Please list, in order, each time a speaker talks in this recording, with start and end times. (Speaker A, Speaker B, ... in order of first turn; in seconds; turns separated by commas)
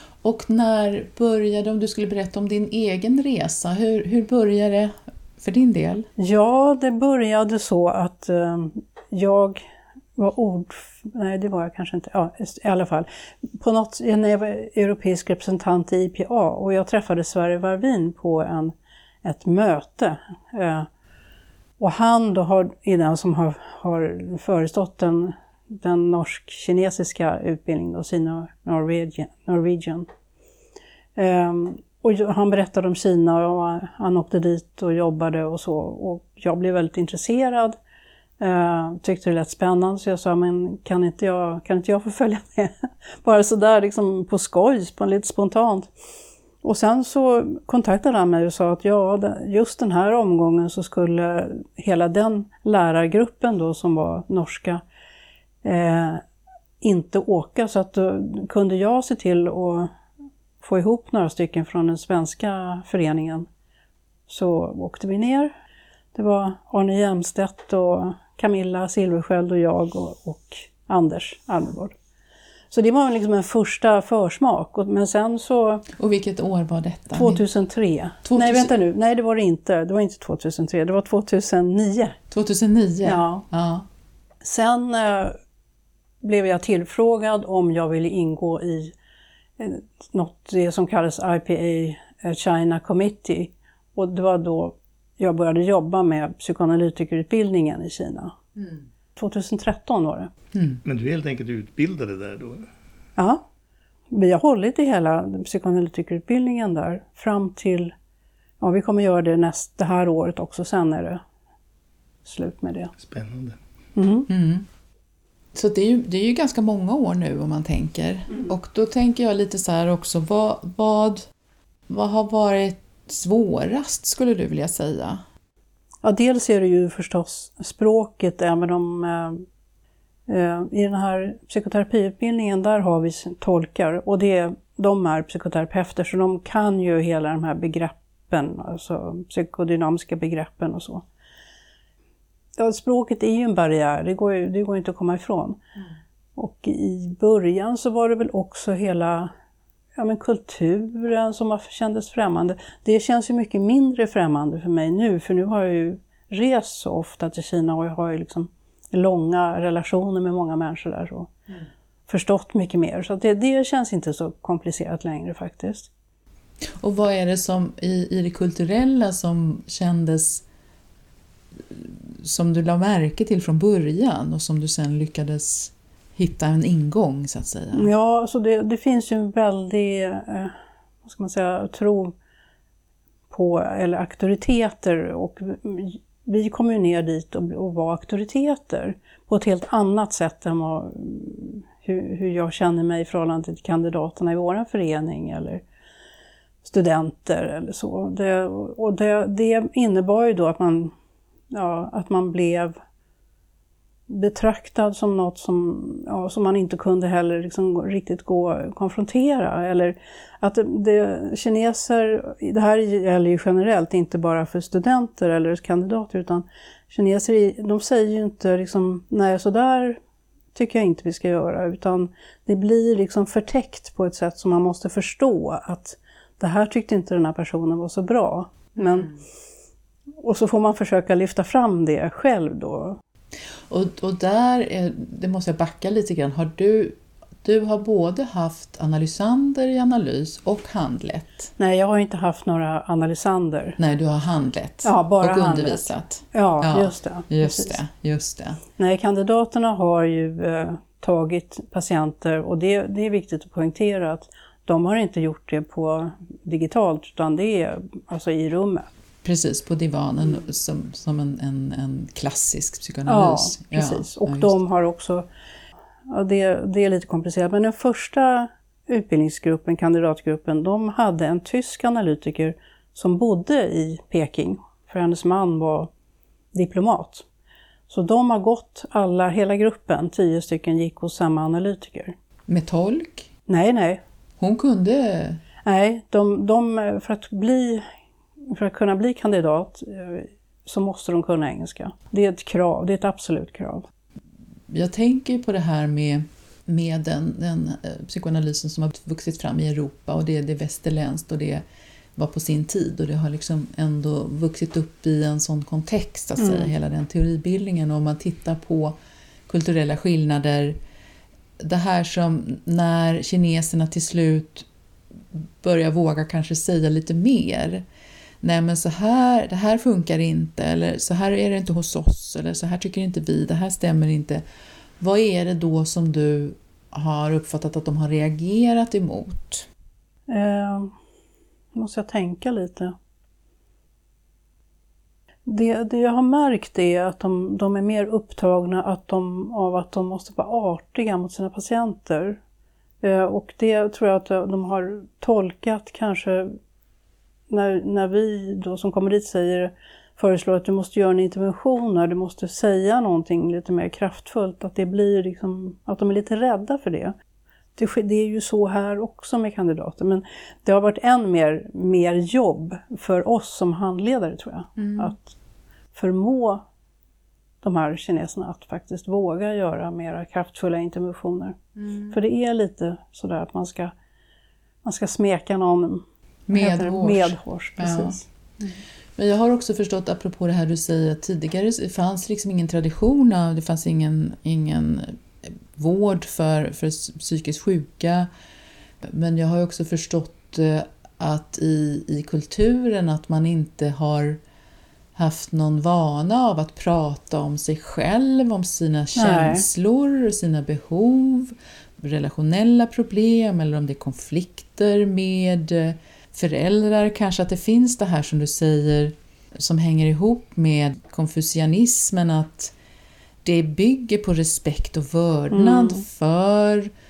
Speaker A: 0.2-6.1, Speaker B: 6.2-9.6, Speaker B: 10.2-20.9, Speaker B: 21.8-30.1, Speaker B: 31.2-37.8, Speaker B: 38.4-45.9, Speaker B: 46.6-54.8, Speaker B: 55.6-56.2, Speaker B: 56.8-59.9, Speaker B: 60.6-63.5, Speaker B: 64.3-65.5, Speaker B: 66.1-71.9, Speaker B: 72.7-75.9, Speaker A: 75.9-77.4, Speaker B: 77.1-82.2, Speaker A: 78.2-78.7, Speaker A: 82.3-83.9, Speaker B: 83.0-83.5, Speaker B: 84.4-85.4, Speaker B: 86.2-88.9, Speaker B: 89.6-98.4, Speaker B: 99.2-100.3, Speaker A: 100.5-100.8, Speaker C: 100.8-102.7, Speaker B: 103.2-103.4, Speaker B: 104.1-107.9, Speaker B: 108.6-111.2, Speaker B: 112.2-112.9, Speaker C: 113.0-113.6, Speaker B: 114.0-114.3, Speaker A: 114.3-114.7, Speaker A: 115.5-121.2, Speaker A: 121.9-125.2, Speaker B: 126.0-129.4, Speaker B: 130.3-141.1, Speaker B: 142.6-145.6, Speaker B: 146.4-149.3, Speaker B: 150.0-161.3, Speaker B: 162.1-165.9, Speaker A: 166.8-170.4, Speaker A: 171.7-177.9, Speaker B: 177.7-180.5, Speaker B: 181.1-182.1, Speaker B: 183.3-195.6, Speaker B: 196.6-200.9, Speaker B: 201.5-202.8, Speaker B: 204.1-220.0, Speaker B: 220.6-229.1, Speaker A: 228.8-229.1, Speaker B: 230.2-233.0, Speaker A: 233.7-241.5, Speaker B: 241.6-243.8, Speaker A: 243.8-248.6, Speaker B: 244.8-247.8, Speaker B: 248.8-258.9, Speaker A: 259.2-264.6, Speaker B: 263.1-265.3, Speaker B: 266.1-275.9, Speaker B: 276.5-277.3, Speaker B: 277.9-282.1, Speaker A: 282.5-283.3, Speaker B: 283.5-284.0, Speaker A: 284.4-285.4, Speaker B: 285.6-287.9, Speaker B: 288.5-293.9, Speaker A: 294.7-301.6, Speaker A: 302.2-308.9, Speaker B: 306.4-306.7, Speaker A: 309.5-310.8, Speaker A: 311.6-314.7, Speaker A: 315.3-317.9, Speaker A: 318.4-324.4, Speaker A: 325.0-329.7, Speaker B: 330.3-330.9, Speaker B: 331.8-332.9, Speaker B: 335.5-342.4, Speaker B: 343.0-346.6, Speaker B: 347.5-357.1, Speaker B: 357.8-365.4, Speaker A: 364.8-365.1, Speaker B: 365.9-366.6, Speaker B: 367.6-371.6, Speaker A: 371.8-372.1, Speaker B: 372.1-373.9, Speaker B: 374.8-378.2, Speaker A: 376.5-378.2, Speaker A: 379.2-388.3, Speaker A: 389.0-394.4, Speaker A: 395.1-412.7, Speaker B: 399.1-399.7, Speaker A: 413.4-416.9, Speaker B: 415.5-416.0